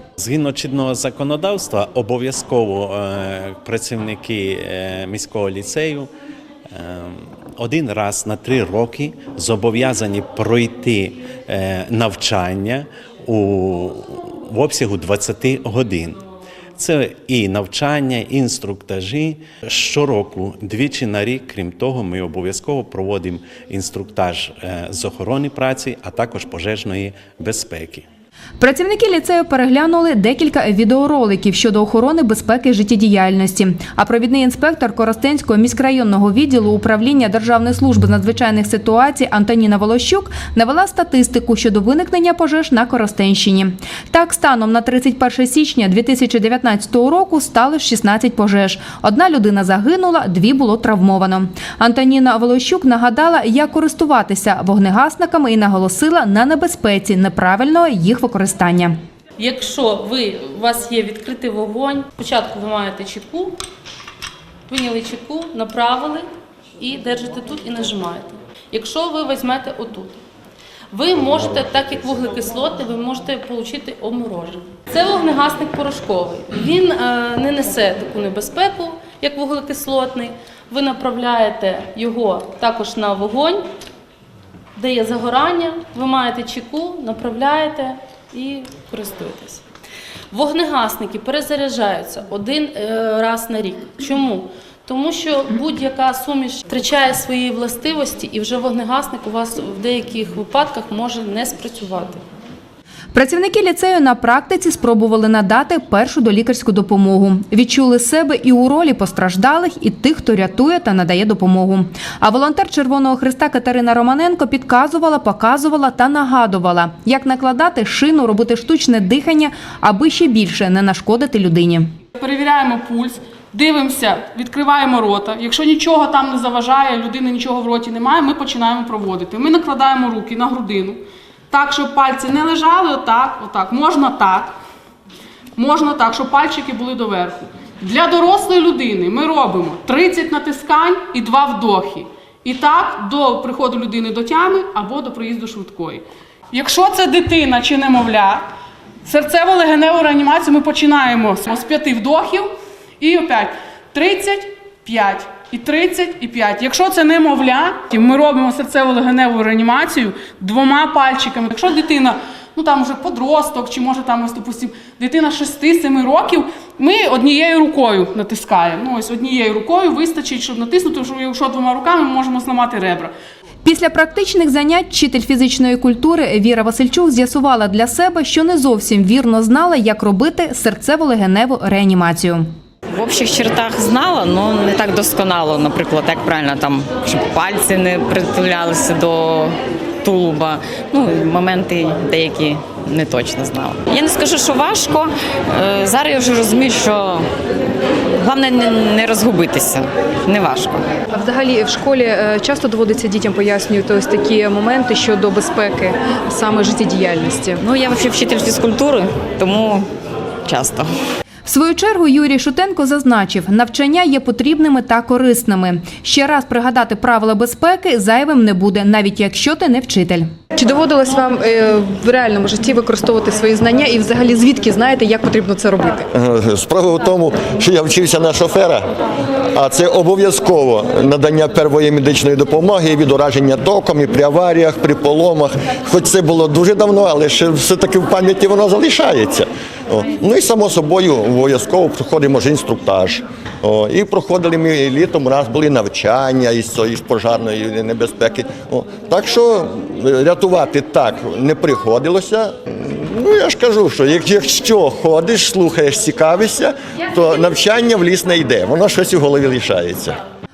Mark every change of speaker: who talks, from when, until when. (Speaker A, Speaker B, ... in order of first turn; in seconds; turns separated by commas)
Speaker A: 0.2-6.1, Speaker A: 6.7-16.2, Speaker A: 16.8-28.0, Speaker B: 28.6-58.9, Speaker C: 59.4-63.6, Speaker C: 64.7-66.2, Speaker C: 66.8-70.2, Speaker C: 70.9-83.6, Speaker C: 84.8-89.6, Speaker C: 90.3-102.2, Speaker B: 103.1-121.9, Speaker D: 122.2-131.0, Speaker D: 131.5-134.5, Speaker D: 135.6-148.4, Speaker D: 149.1-152.5, Speaker D: 153.0-173.1, Speaker B: 173.6-182.4, Speaker E: 182.9-197.2, Speaker E: 198.2-200.8, Speaker F: 201.1-207.6, Speaker E: 207.6-209.8, Speaker E: 210.4-210.9, Speaker B: 211.4-220.3, Speaker F: 220.5-226.1, Speaker G: 226.1-228.8, Speaker G: 229.5-260.2